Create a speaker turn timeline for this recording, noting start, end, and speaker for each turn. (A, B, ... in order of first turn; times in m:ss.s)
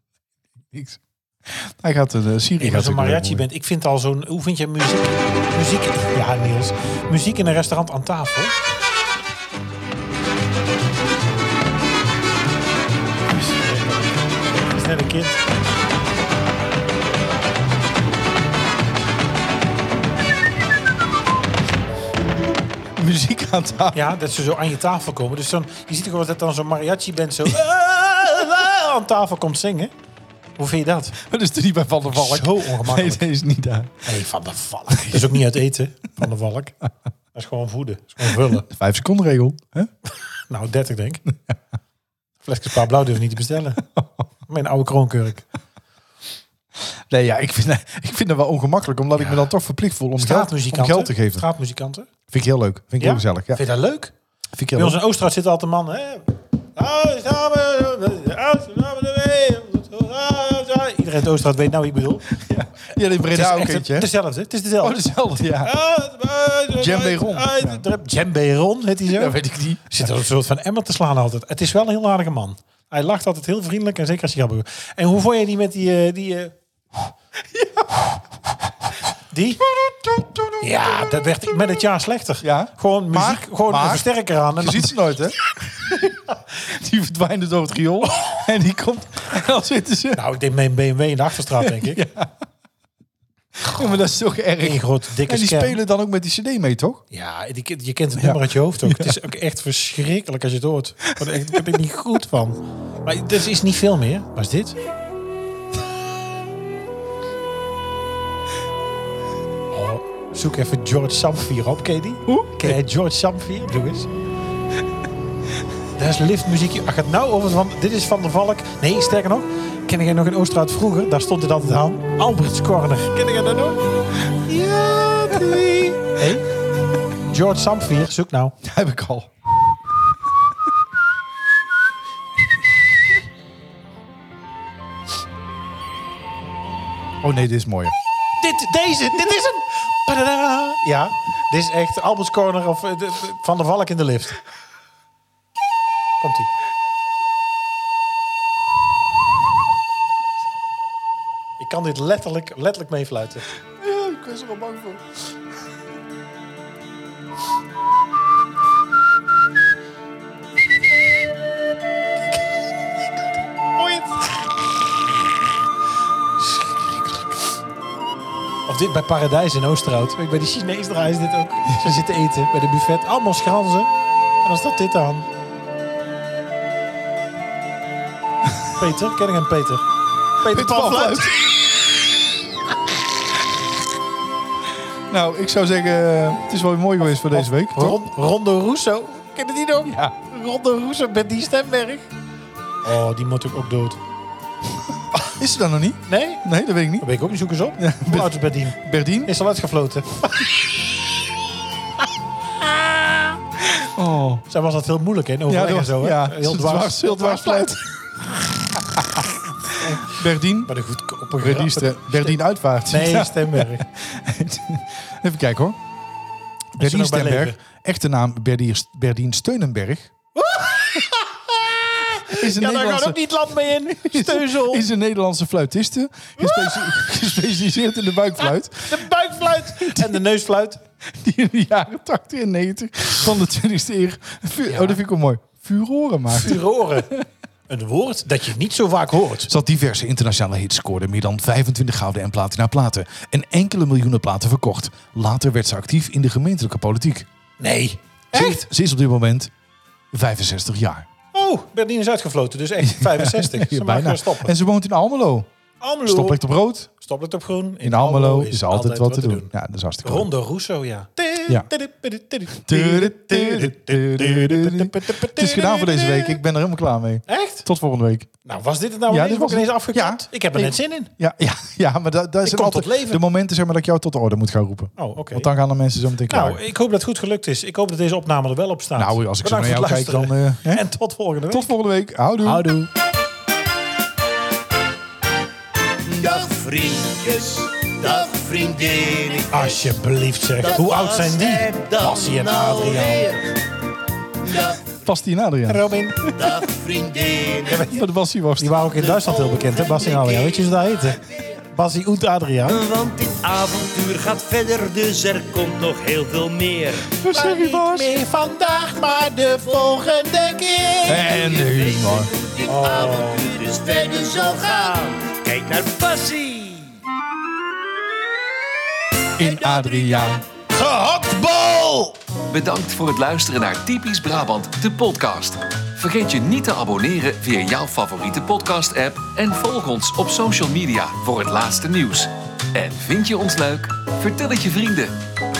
0:00.7-0:03.4 A
0:02.6-0:08.6 B
0:13.3-0:15.4 B
0:23.0-0:24.0 A
0:23.9-0:29.9 B
0:30.6-0:31.2 B
0:31.2-0:33.9 A
0:32.1-0:33.2 B
0:34.0-0:36.8 B
0:37.3-0:38.6 B
0:38.5-0:39.9 A
0:40.5-0:41.2 B
0:42.4-0:43.8 B
0:44.5-0:45.5 B
0:47.1-0:51.5 A
0:49.2-0:49.4 B
0:50.2-0:52.1 B
0:52.3-0:53.6 A
0:53.0-0:54.1 B
0:54.5-0:55.0 A
0:54.7-1:02.3 B
1:02.3-1:04.1 A
1:03.3-1:05.0 B
1:04.8-1:05.7 A
1:05.6-1:09.4 B
1:06.8-1:07.8 A
1:09.0-1:10.1 A
1:09.9-1:16.6 B
1:17.5-1:18.2 A
1:19.3-1:19.6 B
1:19.8-1:20.6 A
1:20.6-1:24.9 B
1:22.4-1:30.2 A
1:28.1-1:28.4 B
1:30.1-1:32.0 B
1:31.6-1:32.3 A
1:33.6-1:37.0 A
1:34.6-1:35.8 B
1:37.1-1:44.8 B
1:38.2-1:39.2 A
1:49.7-1:54.1 B
1:52.3-1:52.8 A
1:55.9-2:03.8 B
2:04.4-2:06.5 B
2:05.4-2:05.6 A
2:07.3-2:08.6 B
2:08.6-2:09.3 A
2:17.2-2:17.9 A
2:18.4-2:24.4 B
2:26.2-2:26.5 B
2:31.6-2:33.5 B
2:33.8-2:35.0 A
2:43.8-2:44.6 B
2:46.4-2:47.4 B
2:48.7-2:53.9 B
2:54.4-2:55.2 B
2:58.8-2:59.8 B
3:00.4-3:01.4 B
3:00.4-3:01.6 A
3:05.1-3:08.0 A
3:07.2-3:12.1 B
3:09.8-3:10.1 A
3:12.8-3:14.0 B
3:15.2-3:17.1 A
3:16.1-3:16.4 B
3:17.0-3:20.6 B
3:17.8-3:19.3 A
3:22.7-3:23.3 B
3:23.6-3:24.4 A
3:24.5-3:27.7 B
3:25.5-3:27.9 A
3:28.7-3:29.3 A
3:29.8-3:30.1 B
3:29.8-3:30.7 A
3:30.6-3:33.8 B
3:31.4-3:35.8 A
3:36.7-3:40.1 A
3:36.8-3:37.6 B
3:40.3-3:44.9 B
3:42.3-3:43.2 A
3:43.9-3:49.1 A
3:46.4-3:47.1 B
3:48.4-3:50.8 B
3:49.6-3:50.2 A
3:51.0-3:57.2 A
3:54.7-3:55.0 B
3:56.3-3:57.1 B
3:57.7-3:59.5 B
3:59.5-4:07.3 A
4:07.6-4:08.7 B
4:08.3-4:09.5 A
4:10.1-4:11.1 A
4:11.3-4:14.5 B
4:12.8-4:15.5 A
4:15.8-4:19.5 B
4:16.0-4:16.9 A
4:17.8-4:20.3 A
4:20.0-4:26.4 B
4:22.6-4:28.3 A
4:27.3-4:27.7 B
4:28.4-4:31.1 B
4:29.1-4:36.6 A
4:32.4-4:33.2 B
4:35.0-4:35.5 B
4:36.3-4:41.7 B
4:38.9-4:40.8 A
4:41.5-4:42.7 A
4:42.4-4:42.9 B
4:46.0-4:50.0 C
4:49.5-4:53.3 B
4:50.6-4:53.5 C
4:54.4-4:54.9 C
4:55.0-4:56.6 A
4:55.7-4:56.3 B
4:56.4-4:57.8 C
4:57.7-5:01.2 B
4:57.9-4:58.8 A
4:58.9-5:01.5 C
5:01.7-5:02.8 B
5:02.6-5:07.2 C
5:07.2-5:08.2 A
5:07.3-5:10.2 B
5:08.6-5:16.9 C
5:11.0-5:12.3 A
5:12.7-5:13.5 B
5:19.4-5:20.4 A
5:19.4-5:20.2 C
5:20.7-5:22.2 C
5:22.5-5:35.1 D